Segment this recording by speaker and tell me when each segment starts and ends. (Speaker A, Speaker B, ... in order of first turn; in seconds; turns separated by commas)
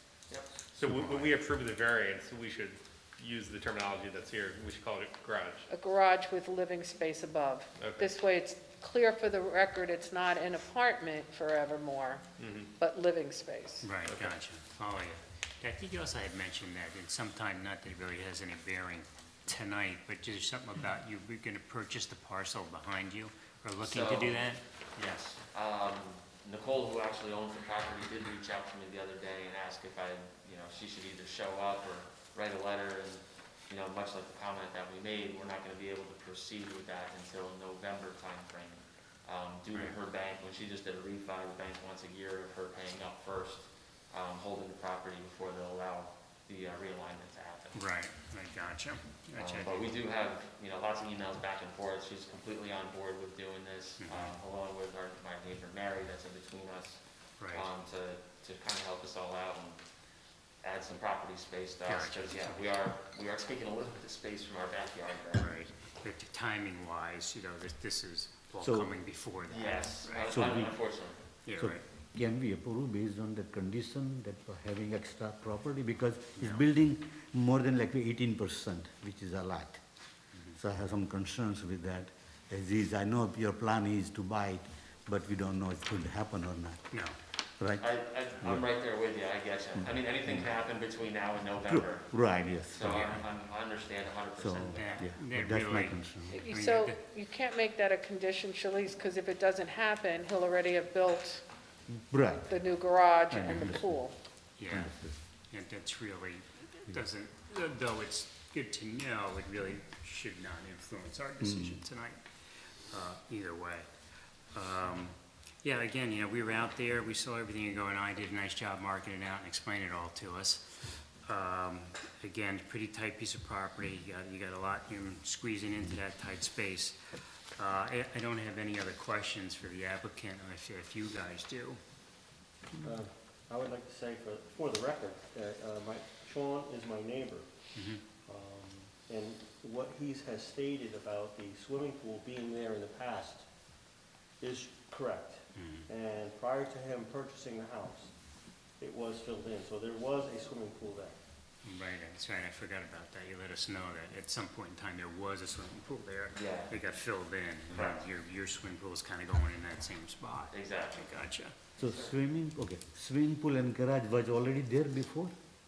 Speaker A: 0.8-1.3, Speaker B: 0.8-5.6, Speaker C: 5.7-12.2, Speaker C: 12.8-13.9, Speaker A: 13.8-24.6, Speaker D: 23.8-47.8, Speaker A: 47.7-49.9, Speaker D: 49.4-59.8, Speaker A: 54.0-54.3, Speaker A: 57.4-57.7, Speaker D: 60.6-65.5, Speaker A: 61.9-62.8, Speaker A: 65.3-70.3, Speaker E: 68.6-68.9, Speaker D: 69.5-71.2, Speaker E: 70.2-70.7, Speaker A: 71.5-71.8, Speaker E: 71.6-79.8, Speaker E: 80.5-86.8, Speaker E: 87.6-87.9, Speaker D: 87.8-95.0, Speaker E: 89.8-90.4, Speaker E: 91.6-93.1, Speaker A: 92.8-93.2, Speaker E: 94.4-96.5, Speaker A: 94.8-97.0, Speaker C: 96.3-101.4, Speaker E: 101.9-102.6, Speaker C: 102.5-104.2, Speaker E: 103.3-104.0, Speaker A: 104.6-104.9, Speaker E: 104.7-105.2, Speaker A: 105.5-112.2, Speaker E: 111.4-111.8, Speaker A: 112.9-113.9, Speaker A: 114.5-127.0, Speaker A: 127.6-131.8, Speaker F: 132.8-137.5, Speaker A: 137.8-138.0, Speaker F: 138.2-143.4, Speaker F: 144.4-148.1, Speaker A: 145.6-145.9, Speaker F: 148.8-151.2, Speaker A: 151.6-161.5, Speaker D: 156.3-156.8, Speaker D: 157.7-158.0, Speaker D: 160.5-161.1, Speaker E: 161.8-165.3, Speaker D: 161.8-162.1